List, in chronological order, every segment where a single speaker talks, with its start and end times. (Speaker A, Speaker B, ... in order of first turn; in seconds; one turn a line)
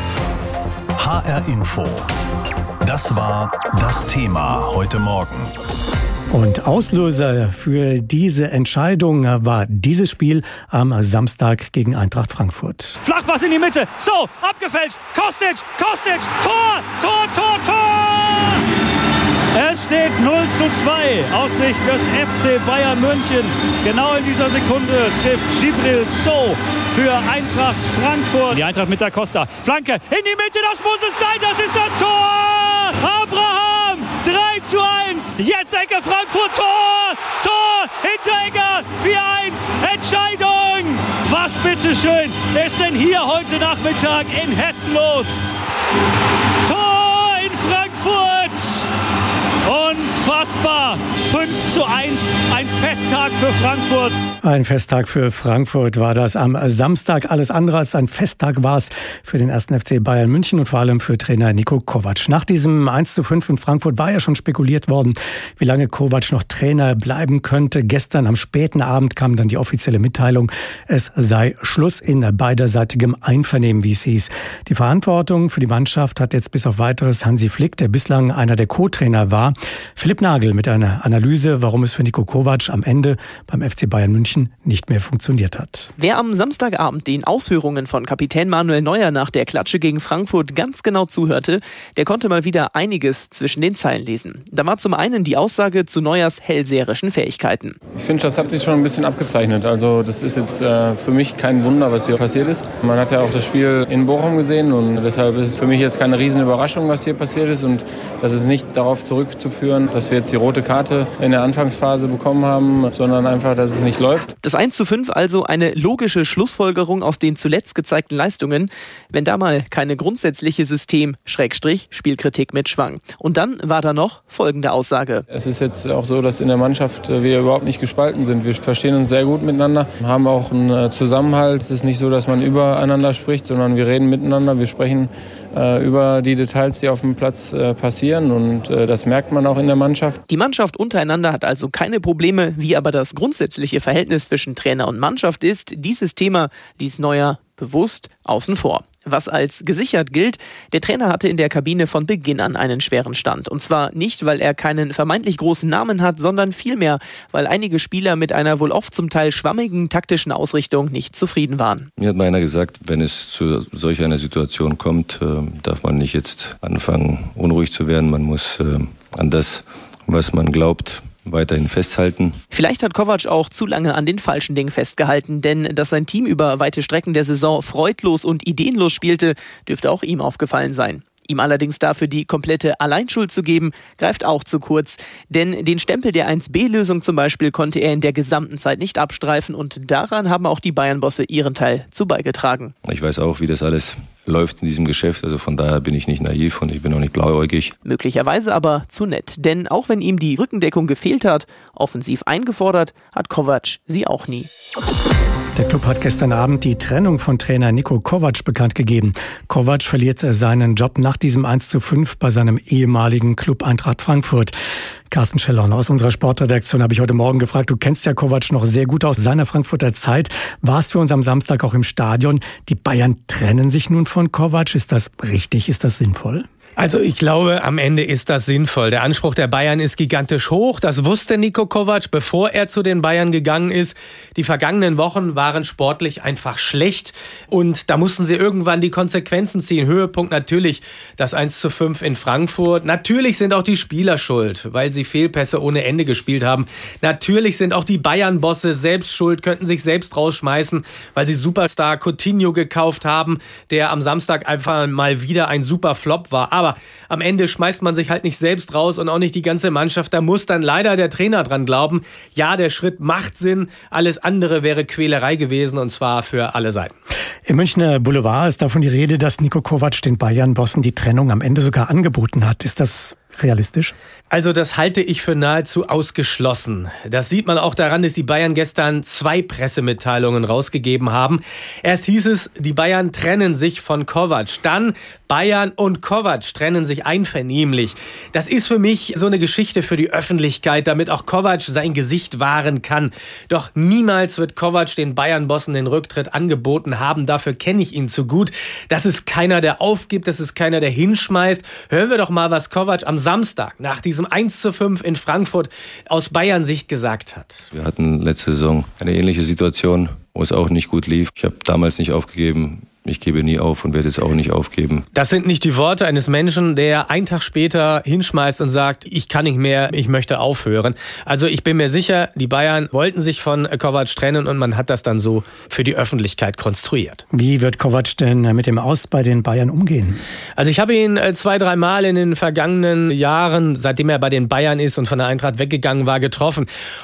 Speaker A: 1.0-2.1
Speaker A: 2.8-5.5
Speaker B: 6.3-13.0
Speaker C: 13.0-18.6
Speaker C: 19.5-45.4
Speaker C: 46.6-48.9
Speaker C: 49.6-54.2
Speaker B: 54.4-85.9
Speaker D: 86.0-97.8
Speaker E: 97.9-114.3
Speaker D: 114.4-125.3
Speaker E: 125.3-140.2
Speaker D: 140.3-161.9
Speaker F: 162.0-172.4
Speaker D: 172.5-192.7
Speaker F: 192.8-197.8
Speaker D: 197.8-204.5
Speaker B: 205.6-214.5
Speaker B: 215.1-226.5
Speaker G: 226.8-266.9
Speaker B: 267.5-273.9
Speaker G: 274.3-307.6
Speaker F: 307.7-315.1
Speaker G: 315.1-327.2
Speaker B: 327.3-330.2
Speaker G: 330.6-336.7